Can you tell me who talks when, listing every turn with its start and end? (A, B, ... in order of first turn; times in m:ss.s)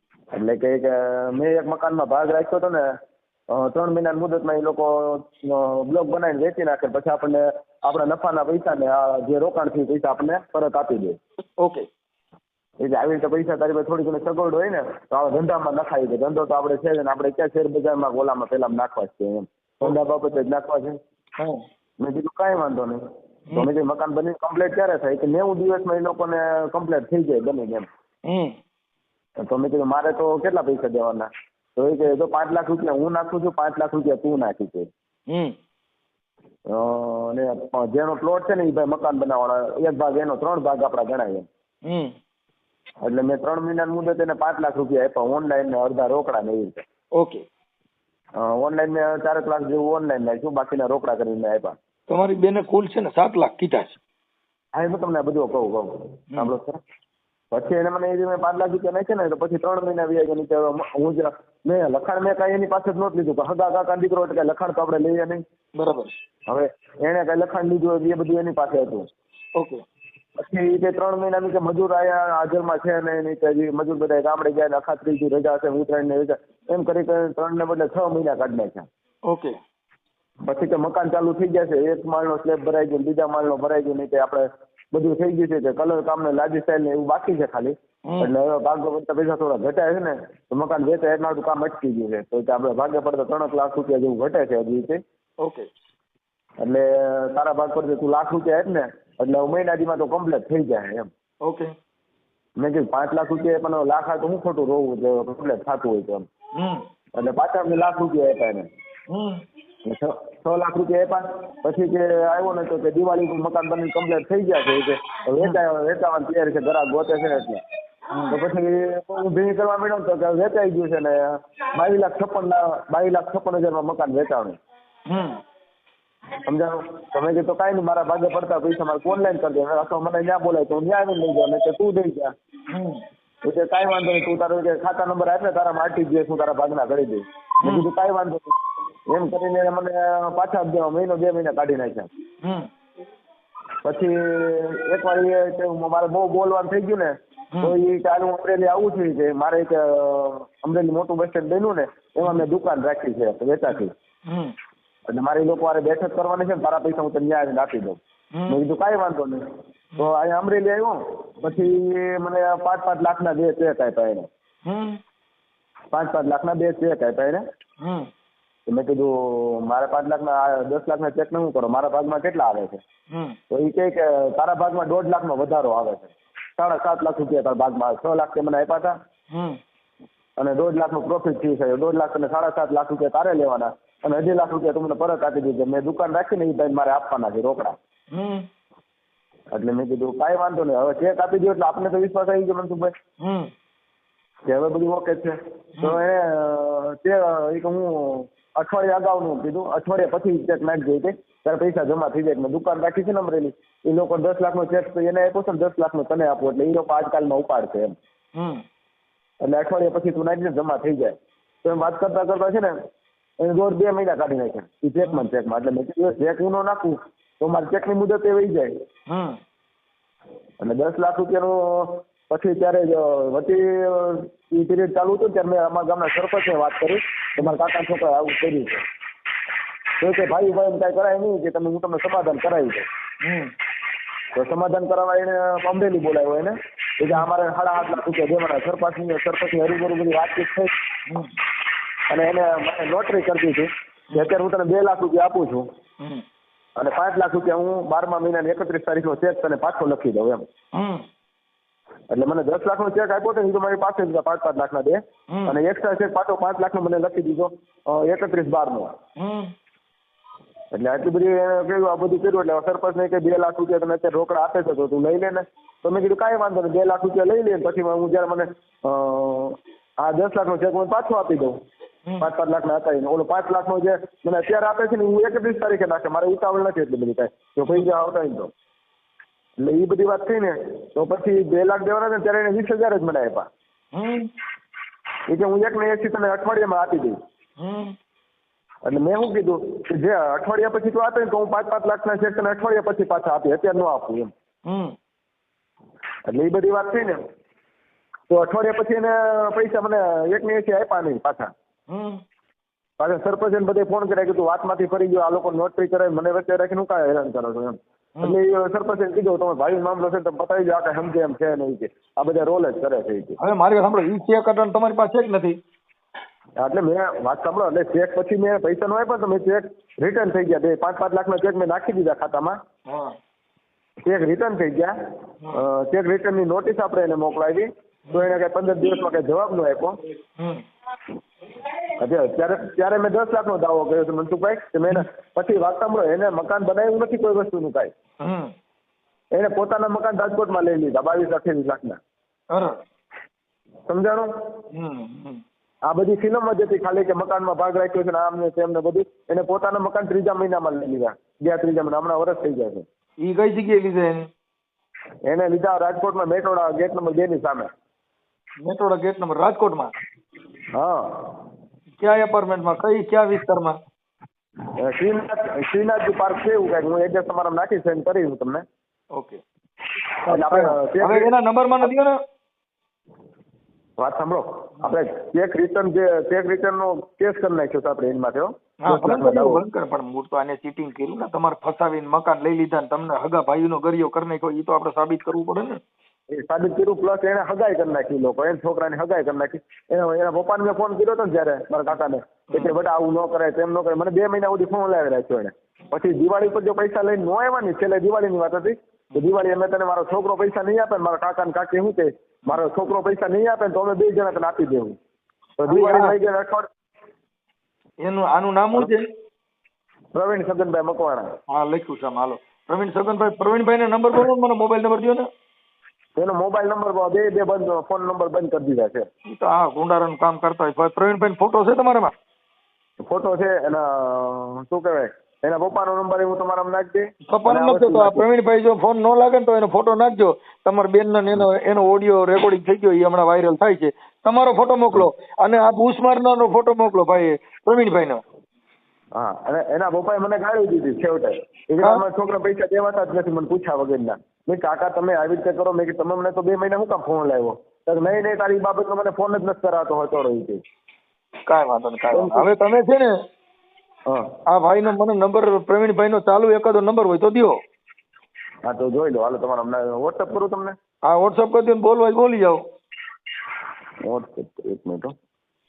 0:00.3-0:02.9 A
0:03.5-0:11.2 A
0:12.8-0:21.0 A
0:22.0-0:23.0 A
0:23.5-0:27.9 A
0:28.2-0:28.5 B
0:29.4-0:34.9 A
0:35.3-0:35.5 B
0:36.7-0:41.5 A
0:41.8-0:42.1 B
0:43.0-0:46.8 A
0:47.2-0:47.4 B
0:48.4-0:51.7 A
0:52.1-0:54.0 B
0:54.7-0:56.8 A
0:57.5-1:05.4 A
1:05.8-1:06.1 B
1:06.5-1:09.0 A
1:10.4-1:18.9 A
1:20.4-1:35.0 A
1:36.6-1:41.1 A
1:41.4-1:41.7 B
1:42.6-1:46.3 A
1:46.6-1:46.8 B
1:47.2-1:48.7 A
1:49.1-1:49.4 B
1:49.9-1:57.6 A
1:58.1-1:58.4 B
1:58.3-2:04.6 A
2:05.1-2:05.4 B
2:06.4-2:12.3 A
2:12.7-2:13.0 B
2:13.4-2:18.5 A
2:19.1-2:22.1 A
2:22.4-2:22.7 B
2:23.8-2:33.9 A
2:34.3-2:34.5 B
2:35.1-2:39.4 A
2:38.3-2:38.6 B
2:40.0-2:44.3 A
2:44.6-2:45.0 B
2:45.9-2:47.4 A
2:47.8-2:48.1 B
2:48.7-2:52.8 A
2:53.1-2:53.4 B
2:53.5-2:58.9 A
2:59.3-2:59.6 B
3:00.4-3:07.8 A
3:08.1-3:08.4 B
3:09.5-3:12.9 A
3:13.2-3:13.5 B
3:14.5-3:27.9 A
3:28.3-3:28.6 B
3:29.4-3:32.7 A
3:33.4-3:38.7 A
3:39.1-3:39.4 B
3:40.6-3:48.8 A
3:50.0-3:52.8 A
3:53.2-3:53.5 B
3:54.3-4:00.7 A
4:01.1-4:01.3 B
4:02.1-4:05.6 A
4:06.8-4:10.4 A
4:10.7-4:11.0 B
4:12.1-4:18.9 A
4:15.3-4:15.6 B
4:19.2-4:19.5 B
4:20.7-4:31.5 A
4:32.2-4:38.5 A
4:39.6-4:43.5 A
4:43.9-4:44.3 B
4:45.3-4:47.2 A
4:47.6-4:47.9 B
4:48.8-4:54.3 A
4:54.6-4:54.9 B
4:56.3-4:57.2 A
4:58.3-5:01.5 A
5:01.9-5:02.2 B
5:03.0-5:13.4 A
5:13.4-5:15.5 B
5:16.6-5:22.6 A
5:24.0-5:24.9 A
5:25.5-5:29.9 A
5:32.0-5:37.9 A
5:38.2-5:38.5 B
5:39.3-5:42.0 A
5:42.5-5:42.8 B
5:43.9-5:44.3 A
5:44.7-5:45.4 B
5:45.8-5:52.8 A
5:53.2-5:54.2 B
5:55.2-5:57.7 A
5:58.6-5:59.9 B
6:00.7-6:01.4 A
6:02.0-6:03.8 B
6:04.8-6:08.6 A
6:09.2-6:09.4 B
6:10.2-6:11.3 A
6:10.2-6:12.1 B
6:14.0-6:19.6 A
6:18.8-6:25.8 B
6:26.3-6:44.9 A
6:45.6-6:46.7 A
6:45.7-6:46.1 B
6:48.0-6:49.0 B
6:50.1-6:51.3 A
6:51.5-6:55.3 B
6:56.2-6:59.1 A
6:59.3-7:02.1 B
7:03.0-7:08.2 A
7:07.3-7:18.2 B
7:19.2-7:30.6 A
7:31.5-7:33.1 B
7:32.1-7:32.5 A
7:34.5-7:37.6 B
7:38.6-7:40.8 A
7:41.1-7:42.6 B
7:44.0-7:45.1 A